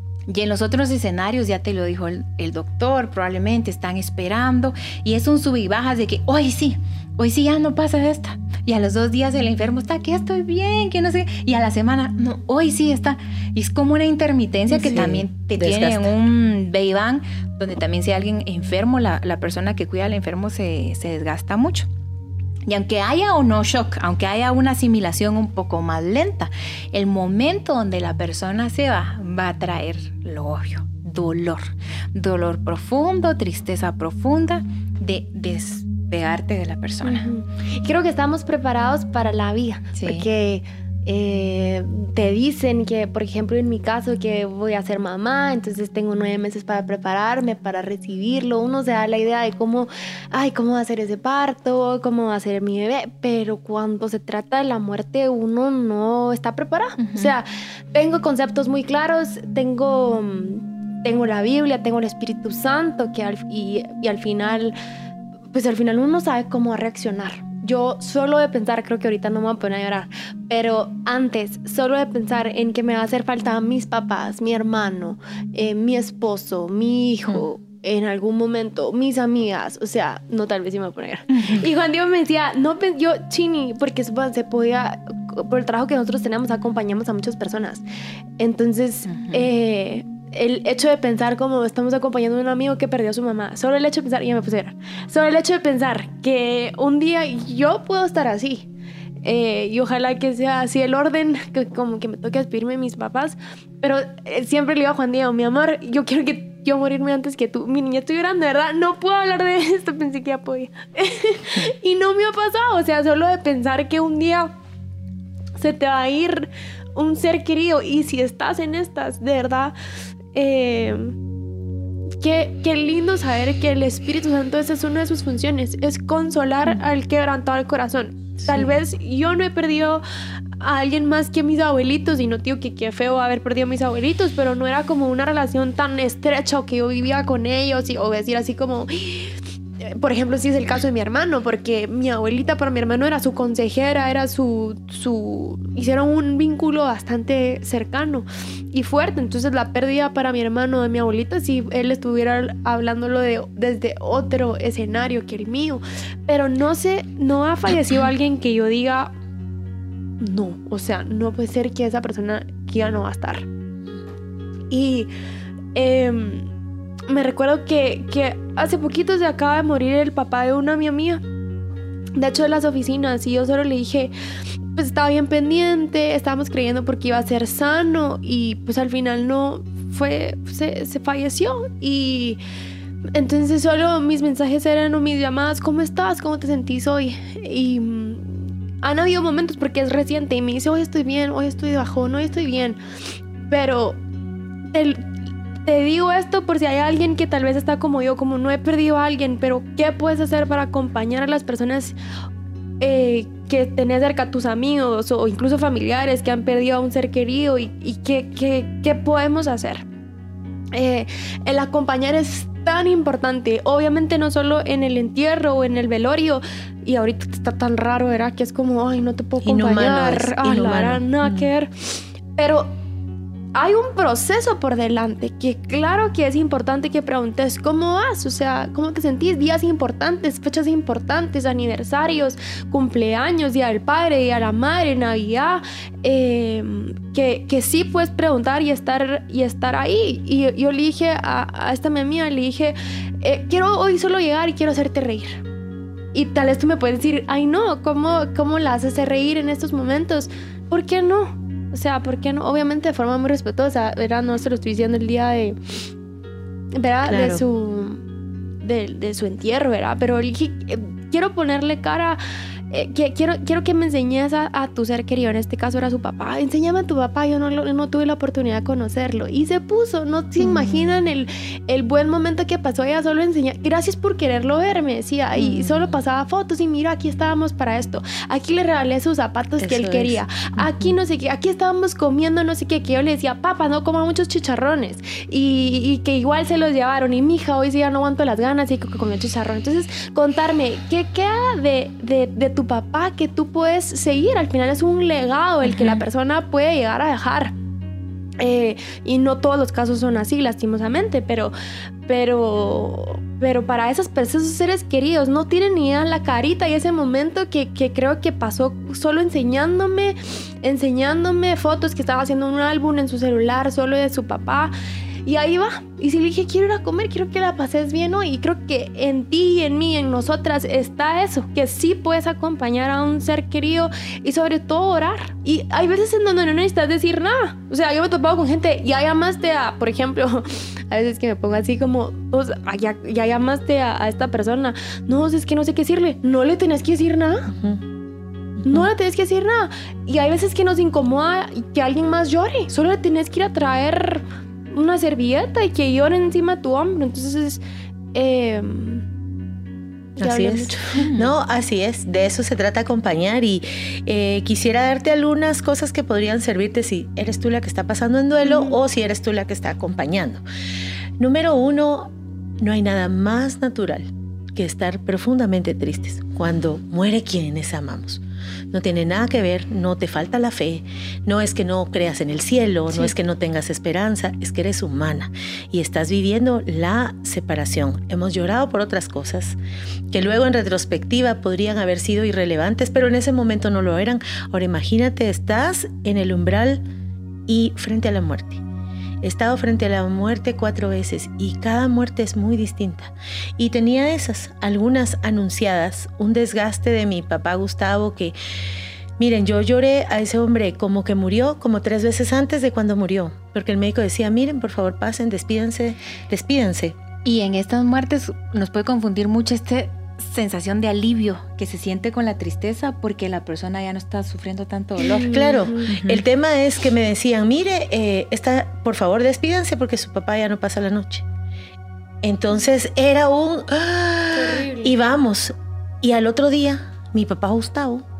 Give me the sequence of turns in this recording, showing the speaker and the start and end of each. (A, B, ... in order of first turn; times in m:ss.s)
0:00.3-0:21.9 A
0:14.8-0:16.1 B
0:22.7-0:37.3 A
0:37.0-1:04.8 C
0:40.0-0:40.3 A
0:57.0-0:57.3 A
1:05.5-1:27.8 C
1:28.4-1:38.7 C
1:29.1-1:29.4 A
1:39.2-1:54.5 C
1:55.6-1:59.8 C
2:00.3-2:01.2 C
2:02.2-2:10.0 C
2:10.6-2:39.1 C
2:40.2-2:43.5 C
2:44.7-2:45.1 C
2:45.7-2:46.5 C
2:47.1-2:51.2 C
2:52.2-2:54.1 C
2:54.8-3:02.4 C
3:03.1-3:12.8 C
3:13.4-3:14.0 C
3:14.7-3:15.1 C
3:15.6-3:22.0 C
3:22.8-3:29.9 C
3:30.7-3:42.7 C
3:39.4-3:41.5 B
3:43.6-4:05.4 C
4:06.1-4:15.8 C
4:16.8-4:18.0 C
4:17.1-4:17.4 B
4:18.6-4:57.6 C
4:35.4-4:35.9 B
4:39.6-4:40.9 B
4:58.4-5:01.5 C
5:02.1-5:14.7 C
5:15.2-5:37.5 C
5:37.5-5:37.8 B
5:38.6-5:38.9 B
5:38.6-5:47.6 C
5:48.1-5:49.1 C
5:50.2-5:51.1 C
5:50.2-6:00.4 B
5:58.4-5:58.8 C
6:01.2-6:19.6 B
6:20.1-6:26.8 B
6:27.5-6:28.6 B
6:29.2-6:38.4 B
6:39.2-6:47.0 B
6:47.2-6:56.2 A
6:55.0-6:56.0 C
6:55.2-7:01.2 B
7:02.2-7:08.0 B
7:04.3-7:05.0 C